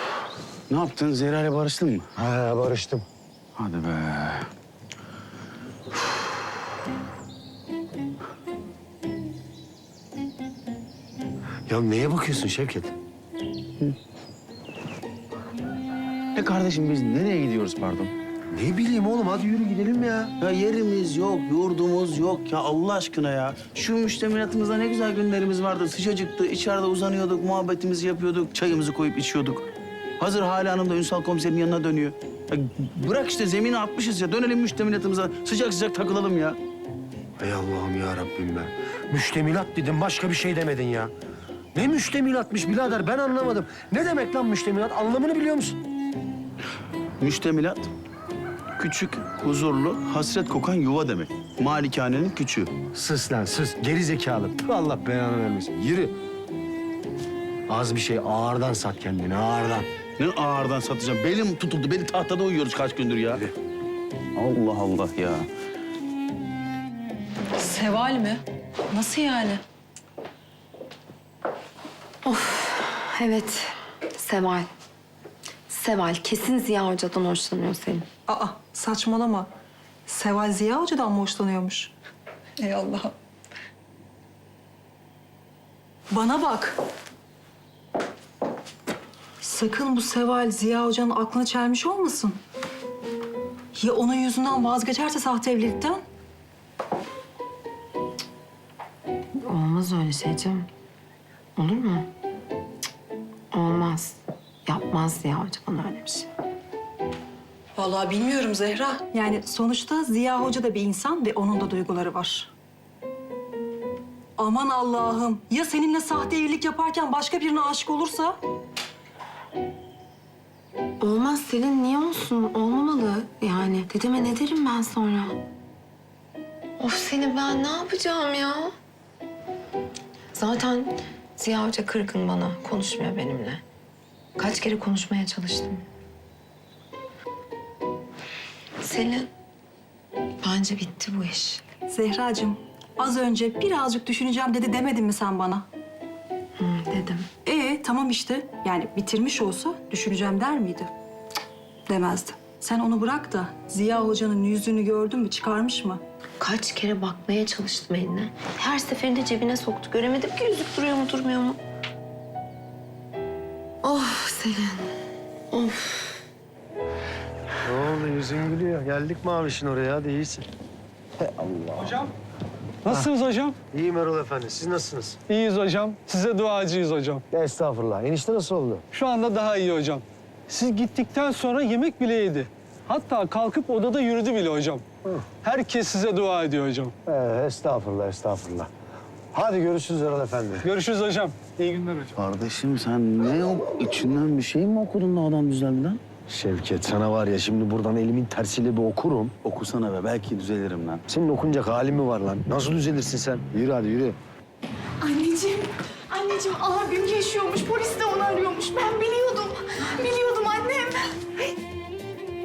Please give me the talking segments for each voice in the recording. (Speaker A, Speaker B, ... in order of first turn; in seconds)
Speaker A: 0.7-2.0, 3.6-4.4, 16.4-18.1, 20.4-29.6, 30.2-36.6, 47.2-47.9, 48.8-52.7, 60.2-63.4, 64.4-65.4, 192.2-196.0, 199.4-201.0
Speaker B: 2.1-3.0, 11.7-12.9, 18.5-20.3, 37.4-41.1, 41.7-45.8, 52.9-56.1, 57.7-59.9, 167.6-170.4, 171.2-172.0, 172.8-173.1, 173.7-175.2, 177.3-178.8, 187.0-188.7, 189.3-190.7, 196.3-199.3, 201.1-204.2
Speaker C: 67.6-68.4, 69.0-69.5, 78.3-79.5, 80.1-81.9, 82.6-83.1, 86.1-86.8, 89.4-92.4, 93.7-96.0, 107.8-112.5, 114.4-118.4, 141.9-145.7, 147.4-150.9, 151.9-156.0
Speaker D: 72.2-74.7, 75.7-78.1, 99.4-100.7, 101.5-102.1, 103.5-106.3, 121.0-125.4, 126.8-128.7, 130.3-133.6, 134.4-135.8, 138.8-139.3, 140.4-141.6, 146.6-147.3, 156.4-161.6, 163.8-164.9, 165.5-166.2
Speaker E: 172.8-173.6, 175.3-177.2, 178.9-184.8, 185.4-186.9, 190.6-192.1
Speaker F: 205.0-210.9